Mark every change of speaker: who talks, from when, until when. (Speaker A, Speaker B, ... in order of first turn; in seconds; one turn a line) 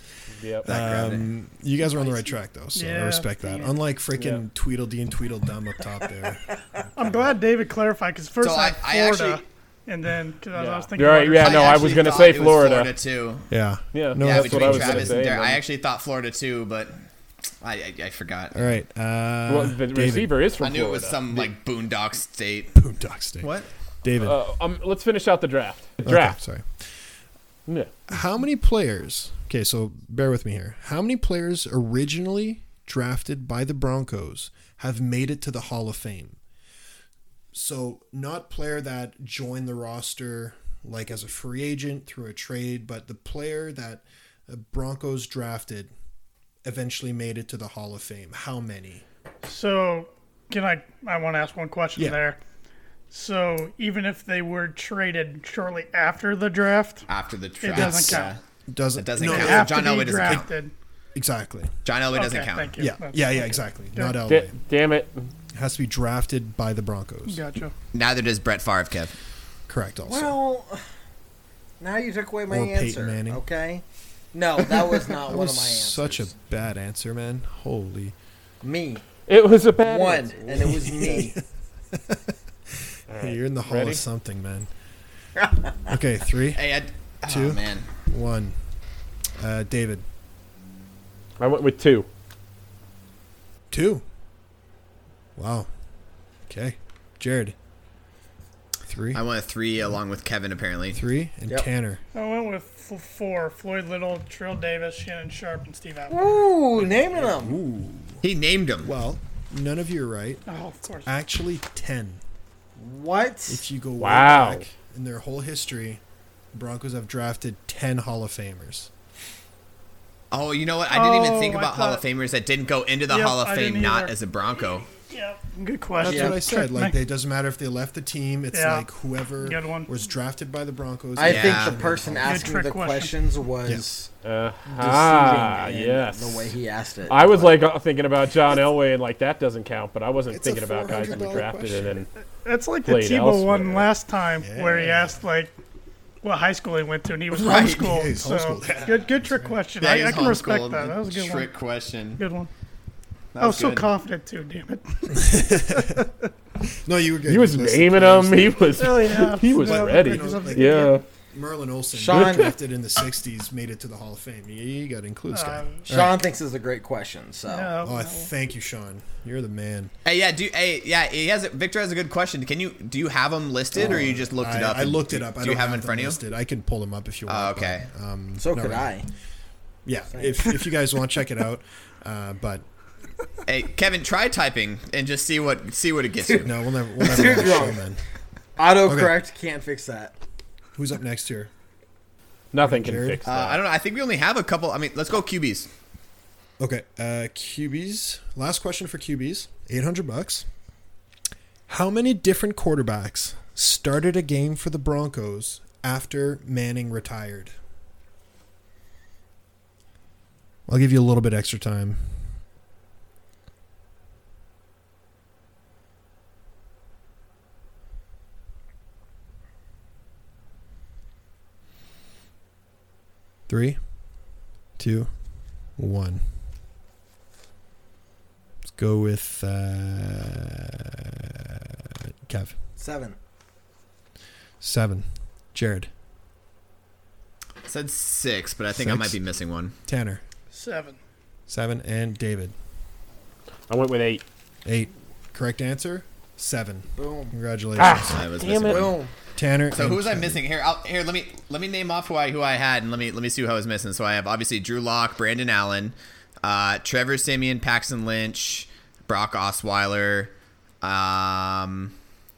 Speaker A: 0.3-0.7
Speaker B: 0.6-1.3
Speaker C: 0.6-7.1
Speaker D: 1.9-3.8
Speaker A: 4.2-4.4
Speaker D: 7.0-12.2
Speaker B: 8.4-9.4
Speaker A: 10.5-12.9
Speaker B: 11.4-13.5
Speaker C: 13.5-15.3
Speaker A: 13.9-15.6
Speaker B: 14.2-17.0
Speaker B: 17.6-18.6
Speaker C: 18.5-20.4
Speaker A: 19.5-21.5
Speaker B: 20.6-22.8
Speaker C: 22.7-23.5
Speaker B: 23.4-23.7
Speaker C: 24.0-24.4
Speaker A: 24.2-26.4
Speaker C: 26.0-26.7
Speaker A: 27.7-27.9
Speaker C: 28.1-36.4
Speaker C: 37.5-45.9
Speaker C: 46.6-49.0
Speaker D: 49.4-52.4
Speaker D: 53.1-57.0
Speaker B: 57.1-58.4
Speaker D: 57.6-58.3
Speaker C: 57.7-60.5
Speaker B: 58.9-60.5
Speaker D: 59.2-60.7
Speaker C: 61.1-61.8
Speaker B: 61.8-62.8
Speaker D: 62.1-64.2
Speaker C: 62.8-64.5
Speaker A: 64.2-65.3
Speaker C: 65.5-67.4
Speaker D: 67.3-67.7
Speaker B: 67.9-69.1
Speaker C: 69.7-70.4
Speaker E: 70.0-70.8
Speaker E: 71.8-76.3
Speaker C: 72.5-73.4
Speaker C: 74.7-78.1
Speaker E: 78.6-79.0
Speaker A: 79.3-80.8
Speaker E: 79.8-81.4
Speaker C: 80.6-81.4
Speaker C: 81.9-82.2
Speaker A: 83.1-84.0
Speaker C: 83.1-84.7
Speaker E: 85.4-85.7
Speaker C: 85.9-86.7
Speaker B: 86.5-87.9
Speaker C: 87.2-88.5
Speaker C: 89.4-90.0
Speaker A: 91.4-92.1
Speaker C: 93.7-94.0
Speaker C: 95.3-95.7
Speaker C: 96.5-97.5
Speaker C: 98.8-99.2
Speaker B: 99.1-101.0
Speaker C: 100.9-102.0
Speaker D: 102.1-106.4
Speaker E: 106.1-107.6
Speaker C: 106.8-108.2
Speaker B: 108.2-108.9
Speaker C: 108.8-110.4
Speaker D: 110.5-111.1
Speaker C: 111.0-112.2
Speaker E: 112.8-113.6
Speaker C: 113.5-116.0
Speaker A: 114.0-114.6
Speaker C: 116.5-118.9
Speaker B: 120.3-124.9
Speaker D: 120.9-122.0
Speaker D: 123.1-124.1
Speaker D: 124.9-127.0
Speaker C: 126.0-132.5
Speaker E: 126.0-126.4
Speaker D: 128.5-128.9
Speaker D: 129.4-129.9
Speaker E: 131.2-134.1
Speaker B: 131.2-132.0
Speaker D: 132.2-133.1
Speaker A: 134.2-136.5
Speaker E: 134.7-137.6
Speaker A: 137.1-142.1
Speaker C: 140.3-142.0
Speaker D: 142.4-145.5
Speaker A: 142.8-143.9
Speaker C: 144.4-145.2
Speaker D: 146.2-151.5
Speaker B: 147.3-148.0
Speaker C: 147.6-149.6
Speaker B: 149.8-152.2
Speaker D: 152.2-152.5
Speaker B: 153.3-153.9
Speaker D: 153.4-156.0
Speaker C: 155.1-156.1
Speaker C: 156.7-166.2
Speaker A: 157.3-161.0
Speaker D: 158.8-161.0
Speaker E: 161.9-162.6
Speaker A: 162.1-162.5
Speaker D: 165.3-165.9
Speaker E: 165.9-167.7
Speaker D: 167.5-168.3
Speaker C: 167.8-169.9
Speaker B: 170.0-176.2
Speaker C: 173.7-178.9
Speaker E: 173.8-174.0
Speaker B: 177.3-177.9
Speaker E: 178.4-179.1
Speaker C: 179.8-182.6
Speaker E: 180.1-180.5
Speaker B: 183.4-186.5
Speaker C: 186.4-188.0
Speaker E: 187.0-187.8
Speaker E: 188.6-190.1
Speaker C: 188.8-189.2
Speaker C: 190.7-191.5
Speaker A: 192.5-193.6
Speaker C: 192.6-193.2
Speaker B: 193.2-195.7
Speaker C: 196.6-200.5
Speaker C: 201.7-207.5
Speaker C: 210.7-212.2
Speaker C: 223.5-223.8
Speaker C: 224.8-225.1
Speaker C: 225.8-226.2
Speaker C: 228.7-232.5
Speaker E: 232.8-233.2
Speaker C: 234.6-235.9
Speaker B: 237.6-239.7
Speaker C: 238.7-239.2
Speaker C: 239.8-240.2
Speaker D: 240.5-241.0
Speaker C: 241.5-242.5
Speaker A: 243.7-244.2
Speaker C: 244.6-248.3
Speaker E: 247.0-247.3
Speaker A: 247.8-248.9
Speaker B: 248.1-249.0
Speaker E: 248.6-249.1
Speaker C: 249.3-250.4
Speaker B: 249.7-261.9